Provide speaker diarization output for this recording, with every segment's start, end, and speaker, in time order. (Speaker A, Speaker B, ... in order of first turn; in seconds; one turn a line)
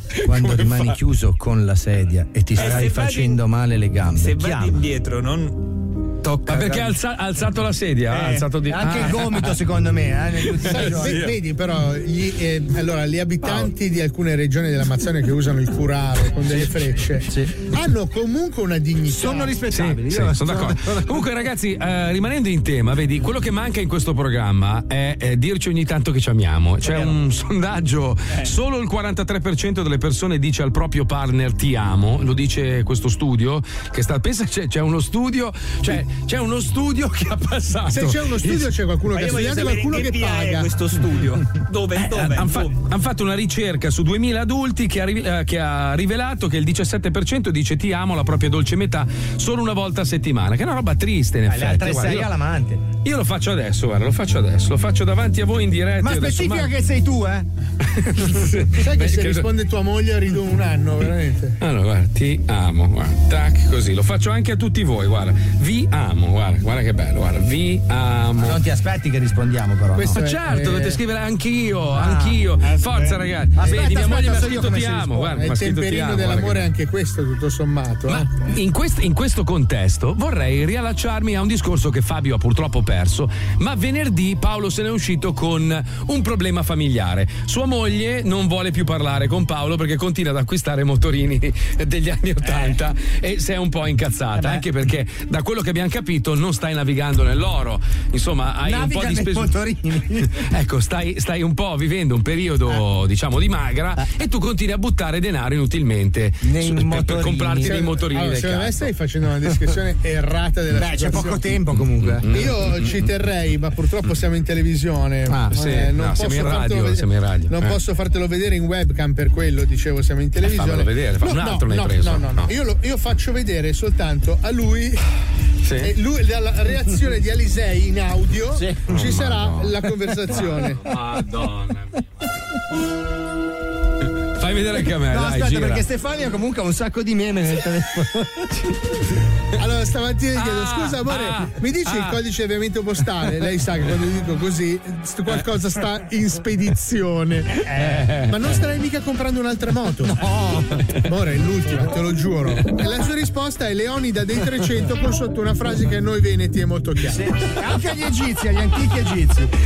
Speaker A: 0.2-1.0
Speaker B: 0.2-4.8
Speaker C: 2.5-3.4
Speaker C: 4.2-6.9
Speaker A: 6.5-9.6
Speaker C: 8.1-8.4
Speaker B: 8.7-11.3
Speaker A: 10.4-11.3
Speaker D: 10.7-19.5
Speaker B: 16.5-16.8
Speaker B: 17.3-17.6
Speaker B: 19.1-21.2
Speaker A: 19.7-38.7
Speaker D: 37.9-40.7
Speaker C: 39.1-42.8
Speaker A: 42.0-52.3
Speaker B: 51.5-52.9
Speaker A: 53.0-56.7
Speaker B: 56.0-57.5
Speaker A: 57.9-59.5
Speaker D: 58.8-61.6
Speaker A: 61.6-68.6
Speaker B: 68.4-70.2
Speaker D: 69.9-71.0
Speaker A: 70.1-76.7
Speaker B: 72.0-72.5
Speaker B: 73.6-75.5
Speaker D: 75.4-78.3
Speaker A: 78.1-99.6
Speaker B: 94.3-94.7
Speaker B: 98.6-100.4
Speaker A: 100.3-108.9
Speaker B: 106.4-107.9
Speaker D: 107.6-111.6
Speaker B: 110.7-112.3
Speaker A: 112.1-113.1
Speaker D: 112.3-125.0
Speaker A: 115.3-117.8
Speaker A: 120.4-122.5
Speaker A: 125.6-125.9
Speaker D: 125.8-130.9
Speaker B: 128.6-128.9
Speaker A: 128.9-132.0
Speaker B: 130.9-131.2
Speaker A: 134.4-135.8
Speaker B: 135.0-138.5
Speaker D: 139.6-150.2
Speaker A: 140.4-142.2
Speaker A: 147.7-148.6
Speaker B: 150.0-150.9
Speaker D: 151.0-157.2
Speaker B: 157.0-159.5